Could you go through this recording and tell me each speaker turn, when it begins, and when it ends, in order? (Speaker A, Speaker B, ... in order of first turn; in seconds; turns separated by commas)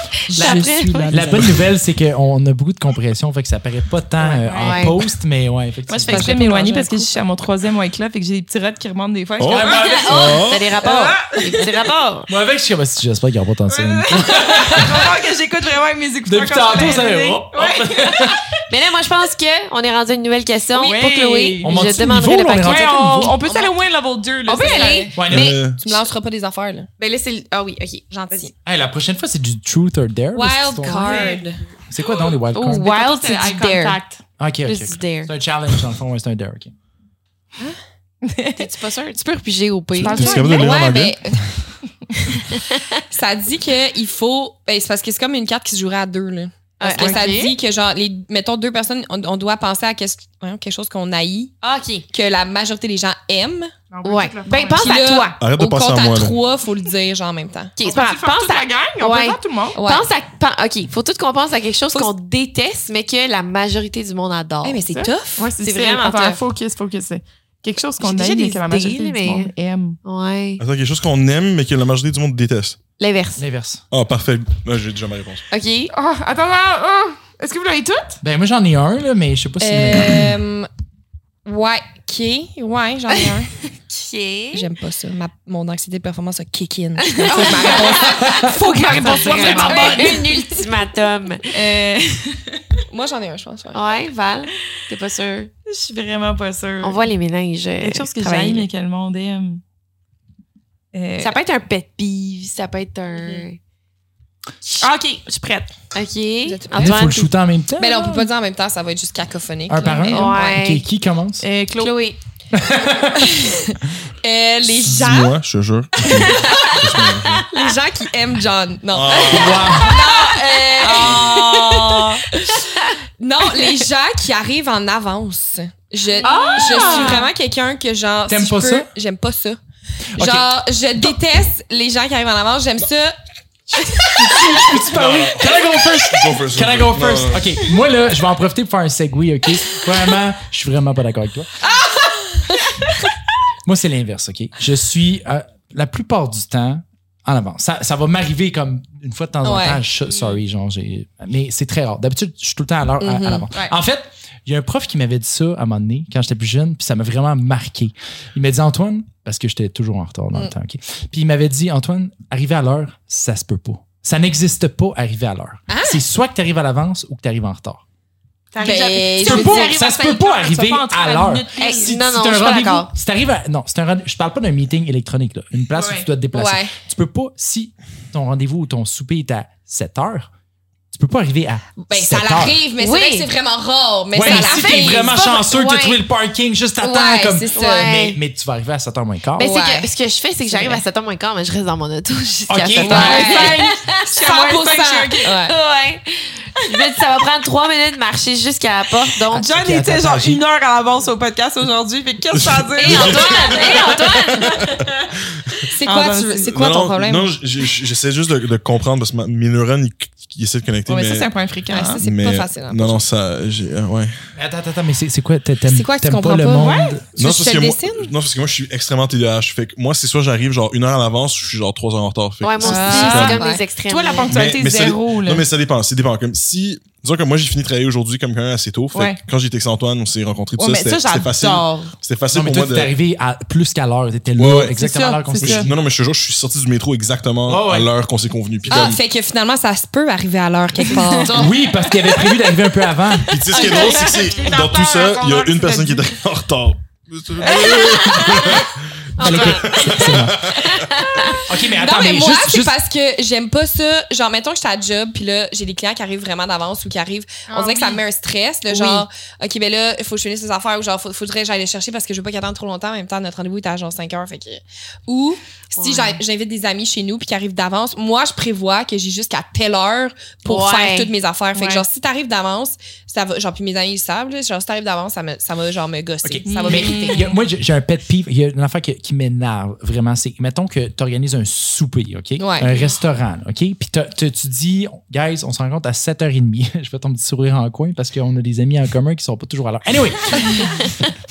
Speaker A: 0.3-1.6, Speaker B: 0.3-1.6, Speaker C: 0.3-6.3, Speaker D: 0.3-0.7, Speaker B: 4.2-4.9, Speaker A: 4.5-4.9, Speaker B: 5.9-11.7, Speaker D: 6.1-7.1, Speaker E: 9.4-10.7, Speaker C: 9.5-10.3, Speaker A: 9.7-12.3, Speaker C: 12.3-15.0, Speaker B: 13.7-18.4, Speaker C: 16.3-18.4, Speaker A: 18.7-23.3, Speaker B: 20.7-21.9, Speaker C: 21.6-23.4, Speaker B: 22.6-25.1, Speaker D: 23.4-23.8, Speaker A: 24.5-25.4, Speaker D: 24.5-26.9, Speaker C: 25.1-25.6, Speaker E: 25.3-25.8, Speaker A: 27.0-28.5, Speaker D: 28.1-28.5, Speaker C: 28.6-32.9, Speaker D: 30.3-31.6, Speaker B: 30.9-31.4, Speaker B: 32.5-34.2, Speaker A: 32.6-34.0, Speaker C: 34.4-36.7, Speaker A: 34.6-35.3, Speaker B: 38.2-38.7, Speaker A: 38.6-40.6, Speaker B: 39.9-40.7, Speaker E: 40.0-41.5, Speaker D: 40.3-41.5, Speaker A: 42.5-42.9, Speaker D: 43.1-51.6, Speaker A: 46.8-47.5, Speaker B: 46.9-47.4, Speaker A: 51.6-52.1, Speaker D: 52.1-53.8, Speaker B: 53.9-55.0, Speaker A: 54.0-55.4, Speaker D: 54.8-57.8, Speaker E: 55.4-56.4, Speaker A: 57.8-65.0, Speaker B: 57.8-59.8, Speaker D: 59.8-60.1, Speaker D: 64.6-65.5, Speaker B: 64.9-70.0, Speaker A: 65.6-66.4, Speaker A: 68.0-69.5, Speaker A: 70.0-70.6, Speaker E: 70.6-72.8, Speaker A: 73.0-73.4, Speaker C: 73.4-73.8, Speaker E: 73.9-75.4, Speaker A: 75.5-75.9, Speaker B: 75.9-78.2, Speaker C: 78.2-80.3, Speaker D: 79.6-80.7, Speaker D: 81.5-83.5, Speaker A: 83.1-84.7, Speaker D: 84.5-90.5, Speaker A: 87.1-91.5, Speaker B: 87.3-90.4, Speaker C: 88.2-90.2, Speaker B: 91.5-92.8, Speaker D: 92.9-93.8, Speaker A: 93.7-95.5, Speaker B: 95.7-97.0, Speaker A: 96.8-98.7, Speaker B: 97.8-99.6, Speaker B: 100.9-101.3, Speaker A: 101.2-103.6, Speaker D: 103.1-103.5, Speaker B: 104.8-105.7, Speaker A: 105.9-107.3, Speaker D: 106.5-107.0, Speaker C: 106.8-108.3, Speaker D: 107.8-110.7, Speaker C: 109.7-111.5, Speaker B: 110.0-110.3, Speaker A: 110.1-110.8, Speaker B: 111.4-112.0, Speaker A: 111.8-112.2, Speaker C: 112.5-113.3, Speaker D: 113.0-115.3, Speaker E: 114.7-117.5, Speaker D: 116.3-116.8, Speaker A: 116.5-116.8, Speaker A: 117.3-117.7, Speaker D: 117.5-122.3, Speaker E: 118.9-119.8, Speaker C: 119.3-120.0, Speaker A: 119.7-122.9, Speaker B: 120.9-121.2, Speaker D: 123.2-129.6, Speaker A: 123.5-123.8, Speaker A: 126.2-127.3, Speaker B: 126.2-127.3, Speaker C: 126.7-127.2, Speaker C: 128.3-128.9, Speaker C: 130.2-130.5, Speaker D: 130.2-133.2, Speaker C: 134.0-141.5, Speaker E: 134.6-137.6, Speaker D: 141.6-142.7, Speaker C: 143.7-167.8, Speaker D: 149.4-149.8, Speaker D: 153.0-153.7, Speaker D: 165.7-166.0, Speaker B: 168.5-172.0, Speaker D: 168.6-169.7, Speaker C: 169.2-180.3, Speaker A: 171.6-172.9, Speaker B: 175.7-176.1, Speaker D: 176.3-176.7, Speaker C: 180.9-182.6, Speaker D: 181.9-185.1, Speaker A: 182.8-183.3, Speaker C: 184.1-189.5, Speaker A: 184.2-186.0, Speaker D: 186.8-188.0, Speaker A: 187.6-188.2, Speaker A: 189.4-194.0, Speaker D: 189.4-189.9, Speaker D: 190.5-190.8, Speaker C: 192.5-193.5, Speaker D: 192.8-195.6, Speaker B: 192.9-195.3, Speaker A: 195.2-199.5, Speaker B: 199.3-204.0, Speaker C: 199.3-200.4, Speaker E: 202.4-204.8, Speaker A: 202.8-204.8, Speaker D: 203.5-203.9, Speaker E: 205.3-205.6, Speaker D: 205.7-207.3, Speaker B: 205.8-206.6, Speaker E: 206.5-211.3, Speaker B: 210.9-212.0, Speaker D: 211.7-213.0, Speaker E: 212.0-214.2, Speaker C: 214.4-217.0, Speaker D: 215.7-218.1, Speaker B: 216.6-217.0, Speaker E: 217.2-223.4, Speaker A: 222.4-224.3, Speaker B: 222.6-225.4, Speaker D: 222.7-223.6, Speaker E: 224.3-232.9, Speaker B: 228.9-229.2, Speaker B: 230.6-231.9, Speaker C: 232.3-235.8, Speaker E: 234.4-234.7, Speaker B: 234.7-235.7, Speaker E: 235.4-239.0, Speaker C: 237.5-237.9, Speaker D: 238.7-241.5, Speaker B: 240.8-241.7, Speaker A: 240.9-241.3, Speaker C: 241.3-243.5, Speaker E: 243.3-250.8, Speaker B: 243.4-246.1, Speaker A: 247.4-251.4, Speaker C: 249.2-250.5, Speaker D: 251.4-277.3, Speaker C: 251.4-252.7, Speaker A: 257.5-258.0, Speaker A: 258.7-259.1, Speaker A: 265.8-266.2, Speaker A: 270.5-271.1, Speaker B: 271.5-271.9, Speaker C: 276.2-290.7, Speaker B: 276.4-277.4, Speaker D: 282.4-282.8